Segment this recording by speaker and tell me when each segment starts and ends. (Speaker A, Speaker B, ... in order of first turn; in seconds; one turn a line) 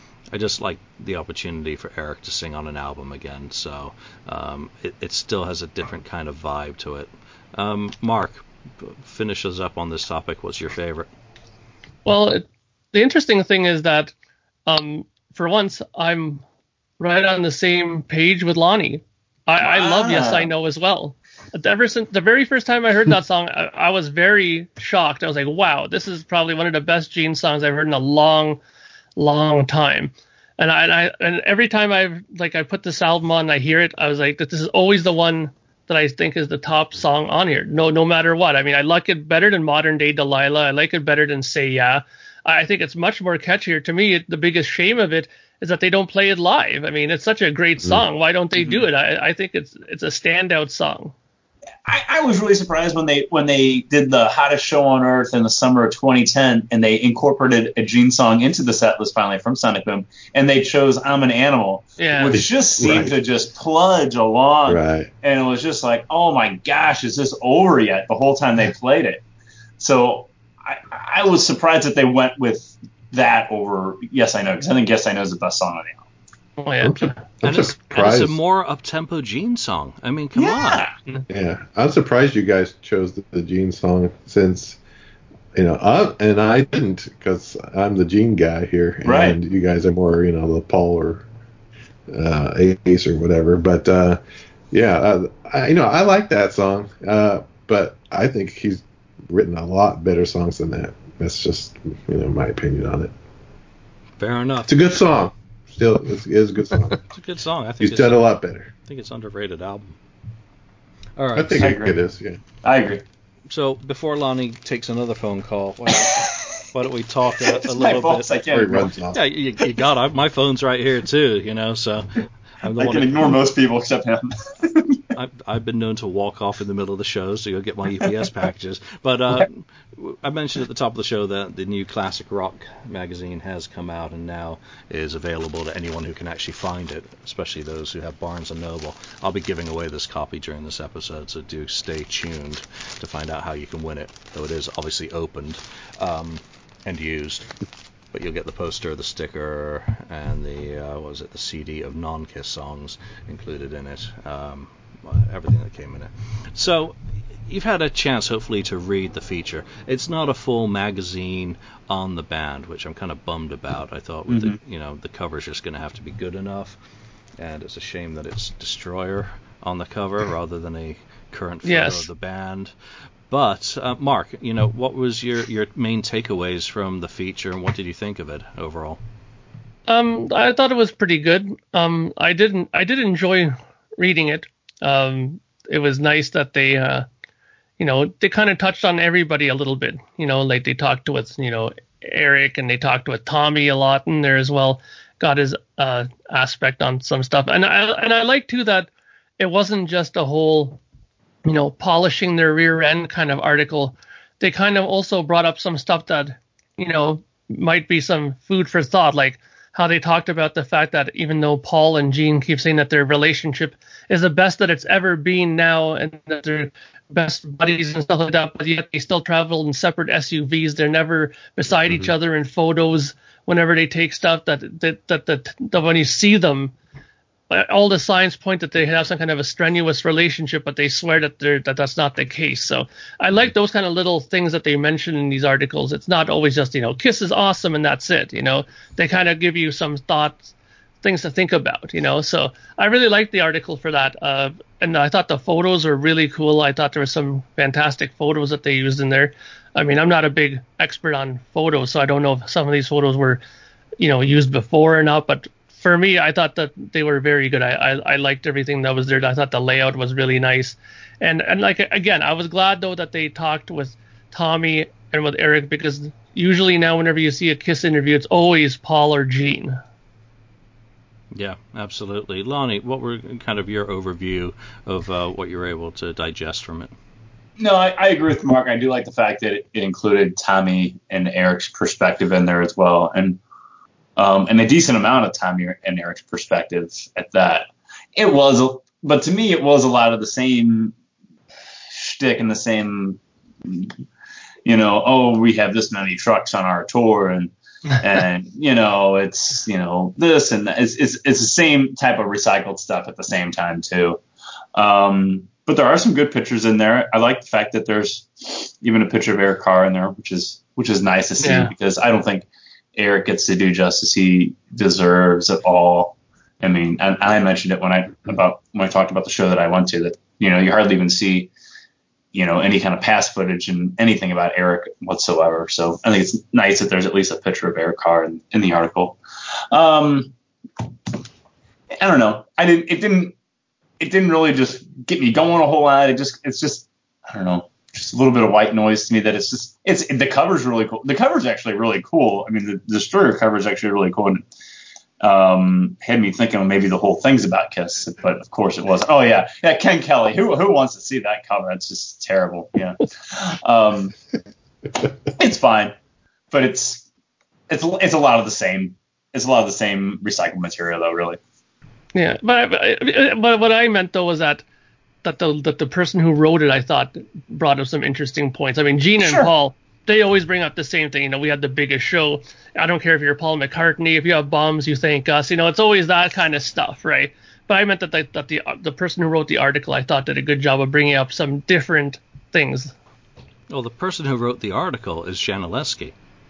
Speaker A: 0.3-11.1
Speaker B: 12.1-14.1
Speaker B: 14.7-16.4
Speaker B: 17.0-28.6
Speaker C: 19.6-20.5
Speaker B: 29.2-51.1
Speaker C: 51.9-69.2
Speaker B: 62.0-62.4
Speaker D: 62.3-63.1
Speaker D: 64.7-65.1
Speaker C: 69.8-76.1
Speaker B: 76.6-77.2
Speaker D: 76.8-78.4
Speaker A: 77.4-80.9
Speaker C: 80.4-80.9
Speaker D: 81.3-84.8
Speaker D: 85.5-91.2
Speaker C: 89.0-89.4
Speaker D: 92.1-94.2
Speaker D: 94.7-103.1
Speaker A: 104.2-104.8
Speaker D: 104.7-107.0
Speaker A: 107.1-108.3
Speaker D: 107.8-108.7
Speaker A: 108.9-110.0
Speaker A: 111.2-111.8
Speaker D: 111.3-112.4
Speaker C: 111.6-111.9
Speaker C: 112.6-113.0
Speaker A: 113.5-118.4
Speaker C: 115.9-116.6
Speaker C: 117.4-118.9
Speaker D: 118.5-119.2
Speaker A: 119.1-123.4
Speaker C: 122.7-125.0
Speaker A: 125.1-147.5
Speaker A: 148.1-166.8
Speaker C: 164.3-164.6
Speaker A: 167.4-172.7
Speaker B: 171.6-172.1
Speaker A: 173.3-179.0
Speaker B: 179.9-187.1
Speaker B: 187.8-200.8
Speaker B: 201.4-226.8
Speaker B: 227.5-253.4
Speaker B: 254.0-269.8
Speaker A: 271.4-276.9
Speaker C: 277.6-283.4
Speaker C: 284.2-290.9
Speaker C: 291.9-293.9
Speaker C: 294.6-304.2
Speaker C: 304.8-321.5
Speaker B: 311.4-311.7
Speaker C: 322.3-329.2
Speaker C: 329.7-330.3
Speaker C: 331.9-333.3
Speaker C: 334.0-344.4
Speaker C: 345.2-354.1
Speaker C: 355.3-355.9
Speaker C: 356.5-357.1
Speaker C: 357.7-361.4
Speaker B: 362.1-364.6
Speaker B: 365.2-382.9
Speaker C: 369.2-369.5
Speaker A: 383.7-386.1